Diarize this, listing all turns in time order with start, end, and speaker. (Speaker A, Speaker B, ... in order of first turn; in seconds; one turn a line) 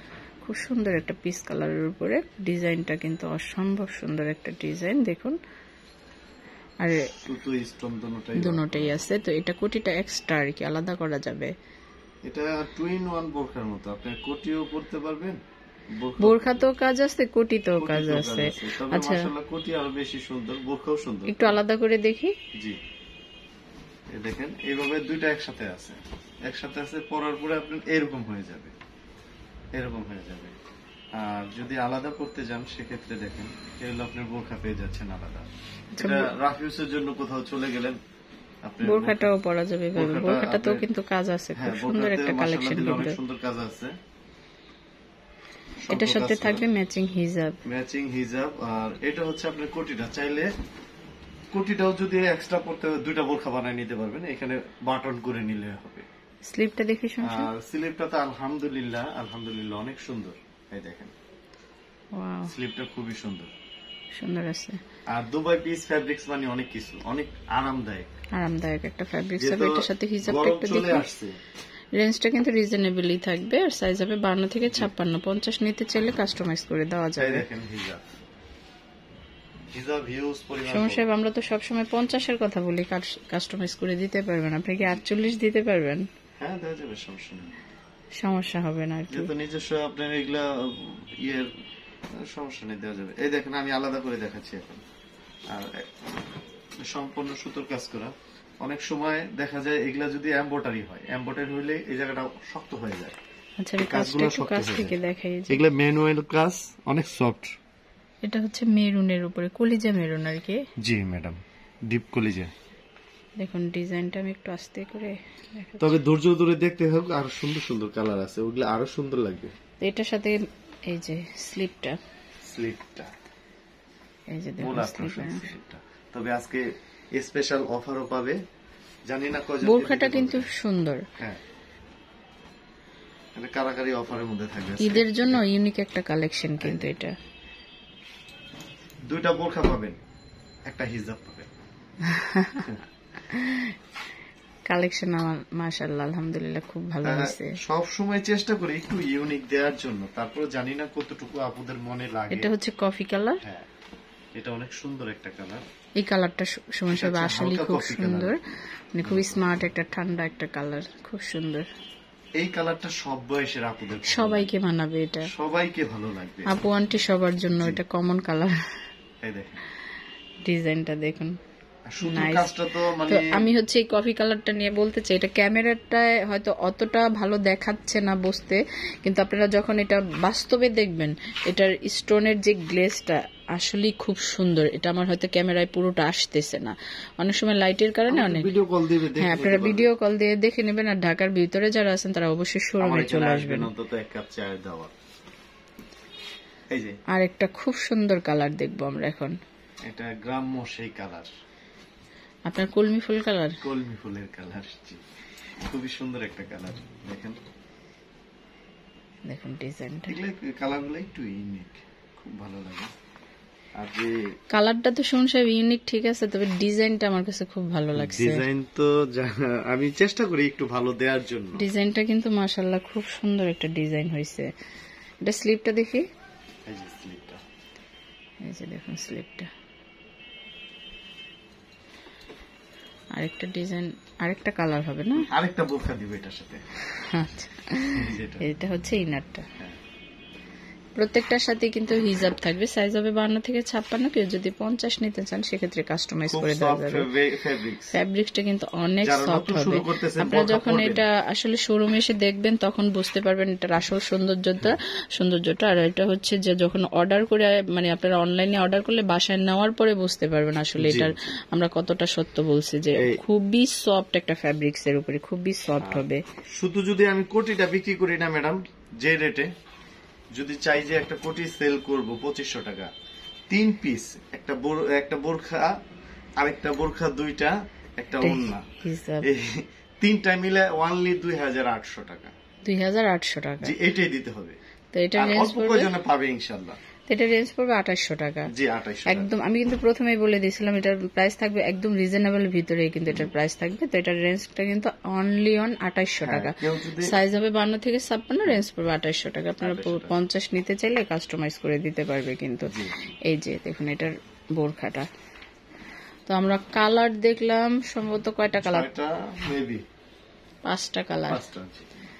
Speaker A: 0.4-5.4
Speaker A: 6.8-7.1
Speaker B: 6.9-9.0
Speaker A: 8.3-11.5
Speaker B: 12.2-15.4
Speaker B: 15.9-16.6
Speaker A: 16.2-19.3
Speaker B: 17.8-21.6
Speaker A: 21.3-22.3
Speaker B: 24.1-28.7
Speaker B: 29.7-30.5
Speaker B: 31.1-38.0
Speaker A: 35.9-36.3
Speaker B: 38.6-39.3
Speaker A: 38.8-43.2
Speaker B: 40.0-40.8
Speaker B: 41.5-44.0
Speaker B: 45.8-46.6
Speaker A: 45.9-47.6
Speaker B: 47.6-50.5
Speaker B: 51.5-56.0
Speaker A: 56.4-57.5
Speaker B: 57.2-61.1
Speaker A: 62.1-62.5
Speaker B: 62.5-63.5
Speaker A: 64.1-64.8
Speaker B: 65.1-68.1
Speaker A: 68.3-71.0
Speaker B: 69.4-71.4
Speaker A: 71.9-77.4
Speaker B: 77.2-78.1
Speaker B: 79.7-81.1
Speaker A: 80.7-86.1
Speaker B: 86.4-87.5
Speaker A: 88.2-89.3
Speaker B: 89.1-91.5
Speaker B: 92.2-94.8
Speaker B: 95.5-95.9
Speaker B: 96.9-103.2
Speaker A: 103.6-105.6
Speaker B: 103.8-105.0
Speaker B: 105.5-107.5
Speaker A: 108.2-110.6
Speaker B: 110.8-112.5
Speaker A: 113.4-116.0
Speaker B: 115.8-119.5
Speaker A: 119.8-122.0
Speaker B: 122.4-123.1
Speaker A: 124.3-125.5
Speaker B: 124.6-128.4
Speaker B: 129.1-130.5
Speaker A: 129.6-131.0
Speaker B: 133.3-135.4
Speaker A: 134.8-137.1
Speaker B: 136.6-136.9
Speaker B: 139.1-140.0
Speaker B: 140.7-141.5
Speaker A: 142.0-142.8
Speaker A: 143.3-143.8
Speaker A: 144.7-147.6
Speaker B: 147.0-152.5
Speaker A: 152.3-153.4
Speaker B: 154.3-155.6
Speaker A: 156.0-158.4
Speaker B: 156.9-158.3
Speaker A: 158.9-161.6
Speaker B: 159.0-159.5
Speaker B: 162.4-164.5
Speaker A: 164.0-165.3
Speaker B: 165.2-166.6
Speaker A: 166.4-168.5
Speaker B: 169.2-169.6
Speaker A: 170.4-171.3
Speaker B: 171.9-173.4
Speaker A: 172.0-188.5
Speaker B: 188.1-189.9
Speaker A: 189.2-193.7
Speaker B: 192.8-194.9
Speaker B: 196.7-197.0
Speaker A: 197.1-199.3
Speaker B: 199.9-201.3
Speaker A: 202.5-203.6
Speaker B: 203.6-205.0
Speaker B: 205.7-207.4
Speaker A: 209.3-210.2
Speaker B: 210.1-212.9
Speaker B: 213.8-214.2
Speaker A: 214.5-218.4
Speaker B: 217.9-221.7
Speaker A: 221.6-224.5
Speaker A: 225.2-226.1
Speaker B: 226.7-227.4
Speaker A: 228.4-229.5
Speaker A: 233.1-235.3
Speaker B: 235.2-236.6
Speaker A: 236.9-239.4
Speaker B: 237.9-238.4
Speaker A: 240.9-247.1
Speaker B: 246.2-248.0
Speaker A: 247.9-266.2
Speaker B: 249.0-251.0
Speaker B: 260.8-261.1
Speaker B: 266.6-269.5
Speaker B: 270.3-272.9
Speaker B: 273.5-275.8
Speaker B: 276.4-278.6
Speaker A: 278.2-279.3
Speaker B: 279.2-282.3
Speaker A: 282.6-283.7
Speaker B: 283.6-284.6
Speaker A: 284.9-285.9
Speaker B: 285.2-286.8
Speaker A: 287.1-288.5
Speaker B: 288.5-289.3
Speaker A: 289.1-302.7
Speaker B: 296.2-297.1
Speaker B: 299.6-300.2
Speaker B: 302.7-302.9
Speaker A: 303.2-305.1
Speaker A: 306.3-308.9
Speaker B: 308.6-309.8
Speaker A: 310.6-311.4
Speaker B: 311.3-311.9